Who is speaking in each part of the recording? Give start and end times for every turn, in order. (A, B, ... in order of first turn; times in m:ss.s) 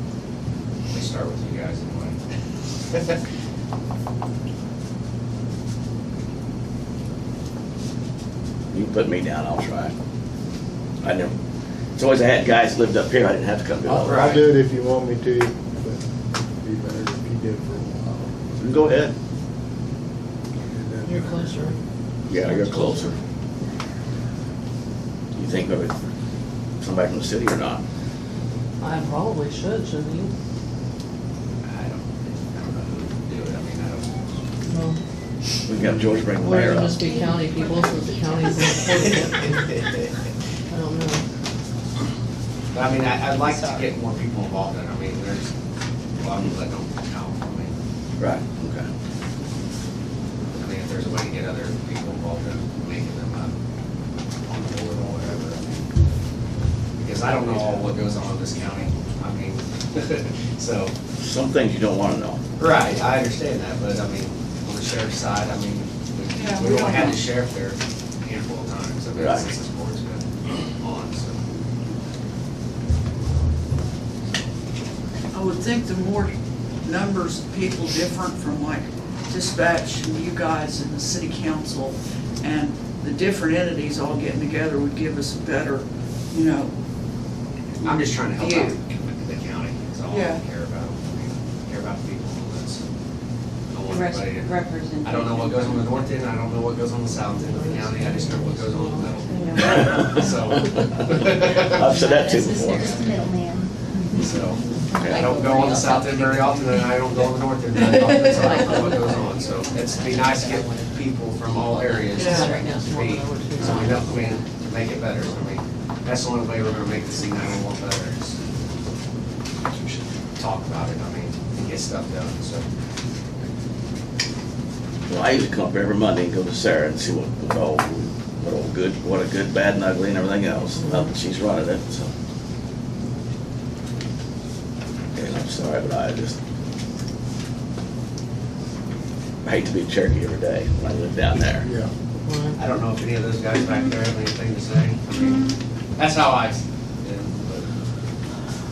0:00.9-0:02.2 A
0:08.7-0:09.9 B
0:11.0-0:11.4 B
0:12.0-0:14.4 B
0:13.9-0:16.0 C
0:14.0-0:14.5 A
0:16.6-0:18.6 C
0:18.6-0:19.1 B
0:20.6-0:21.7 C
0:21.0-0:21.8 D
0:22.3-0:23.1 B
0:22.3-0:23.2 D
0:25.4-0:26.0 B
0:26.8-0:27.8 B
0:28.8-0:30.3 D
0:31.6-0:34.1 A
0:34.6-0:35.0 D
0:35.7-0:37.0 B
0:36.4-0:39.7 D
0:37.0-0:39.0 E
0:39.0-0:40.1 A
0:40.7-0:41.2 D
0:42.7-0:45.4 A
0:43.5-0:43.8 E
0:46.2-0:47.7 A
0:48.2-0:48.9 B
0:50.5-0:53.5 A
0:54.4-0:55.9 A
0:57.0-1:00.9 A
1:01.2-1:02.4 B
1:02.6-1:11.4 A
1:06.3-1:07.2 F
1:09.2-1:09.4 B
1:15.3-1:26.7 F
1:27.8-1:32.8 A
1:27.8-1:28.8 F
1:30.1-1:30.4 F
1:33.7-1:42.1 A
1:33.9-1:36.2 E
1:37.3-1:39.6 D
1:39.3-1:39.7 E
1:41.3-1:43.0 B
1:42.0-1:43.7 E
1:44.1-1:58.4 A
1:44.9-1:46.8 E
1:45.0-1:45.2 B
1:47.9-1:48.4 F
1:48.4-1:50.7 E
1:51.8-1:52.6 E
1:52.2-1:52.5 F
1:52.2-1:54.3 D
2:00.4-2:02.6 A
2:05.1-2:12.1 B
2:10.8-2:11.1 D
2:15.1-2:16.4 B
2:19.4-2:21.7 B
2:21.6-2:21.9 C
2:22.2-2:22.6 D
2:22.6-2:27.7 A